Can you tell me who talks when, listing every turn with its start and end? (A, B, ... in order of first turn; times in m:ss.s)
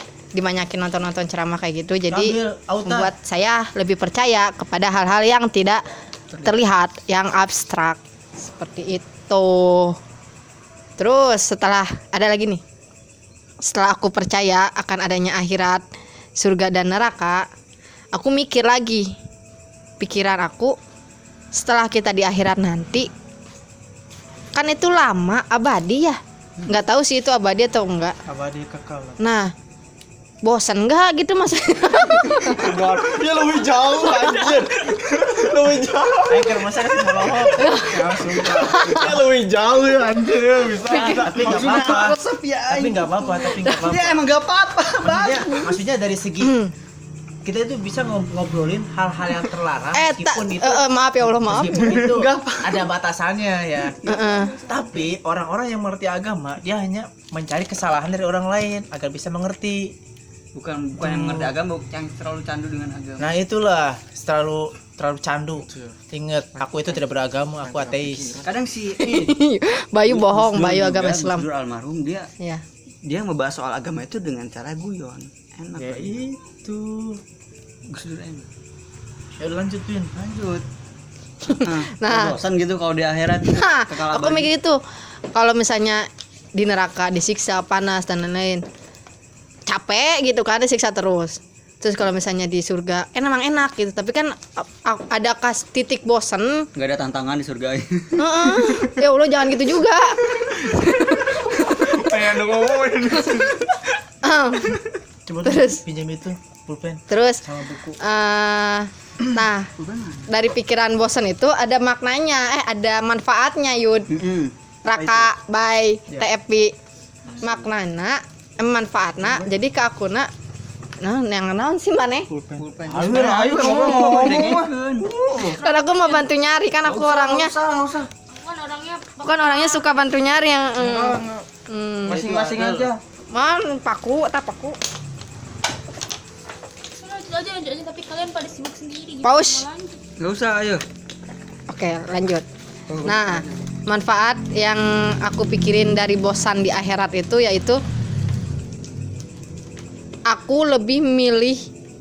0:00.3-0:05.8 A
0:02.1-0:03.1 B
0:06.3-0:06.6 C
0:06.4-0:10.0 A
0:11.0-0:12.6 A
0:13.7-0:15.8 A
0:16.4-0:17.5 A
0:18.2-0:19.1 A
0:20.0-0:20.8 A
0:21.5-0:23.1 A
0:24.6-0:28.2 A
0:28.3-0:29.2 B
0:29.2-0:29.5 A
0:30.4-0:32.7 A
0:32.5-0:41.9 D
0:36.3-0:39.1 B
0:37.6-0:39.0 A
0:40.4-0:45.7 C
0:40.9-0:41.2 A
0:41.0-0:42.2 B
0:42.7-0:44.3 B
0:45.0-0:46.6 B
0:46.4-0:46.7 A
0:47.4-0:54.0 B
0:49.9-0:52.2 A
0:51.7-0:52.9 C
0:54.0-0:54.6 A
0:54.0-0:54.6 C
0:54.7-1:00.0 B
1:00.6-1:03.3 C
1:01.0-1:01.5 B
1:03.2-1:08.4 B
1:05.6-1:06.0 D
1:06.6-1:07.0 D
1:07.7-1:08.5 D
1:08.4-1:09.4 C
1:09.0-1:11.4 A
1:10.1-1:12.3 C
1:12.4-1:12.6 A
1:13.1-1:16.2 C
1:15.8-1:17.2 B
1:17.9-1:18.5 C
1:19.4-1:20.4 B
1:20.3-1:20.6 C
1:21.5-1:22.4 A
1:21.6-1:24.5 C
1:23.4-1:24.8 A
1:25.3-1:28.6 A
1:29.7-1:36.7 A
1:36.8-1:38.6 C
1:38.2-1:42.0 A
1:41.7-1:43.9 D
1:44.2-1:44.8 A
1:45.3-1:48.0 B
1:45.4-1:45.8 A
1:47.1-1:47.4 A
1:48.0-1:49.7 A
1:49.8-1:50.3 C
1:50.3-1:54.1 A
1:54.1-1:55.3 C
1:54.9-1:56.7 A
1:57.3-1:57.7 C
1:57.4-2:00.3 A
2:01.0-2:02.3 A
2:02.3-2:04.5 B
2:02.6-2:05.1 C
2:02.9-2:05.6 D
2:05.4-2:06.4 E
2:05.5-2:07.5 A
2:06.9-2:08.1 D
2:08.3-2:10.0 E
2:09.2-2:12.2 A
2:10.8-2:11.4 D
2:12.1-2:12.9 B
2:12.1-2:13.0 D
2:12.1-2:12.7 C
2:13.3-2:14.8 A
2:17.0-2:20.0 E
2:19.2-2:19.6 A
2:20.2-2:20.8 C
2:21.7-2:22.4 A
2:22.9-2:23.6 C
2:23.0-2:27.8 A
2:30.3-2:31.7 A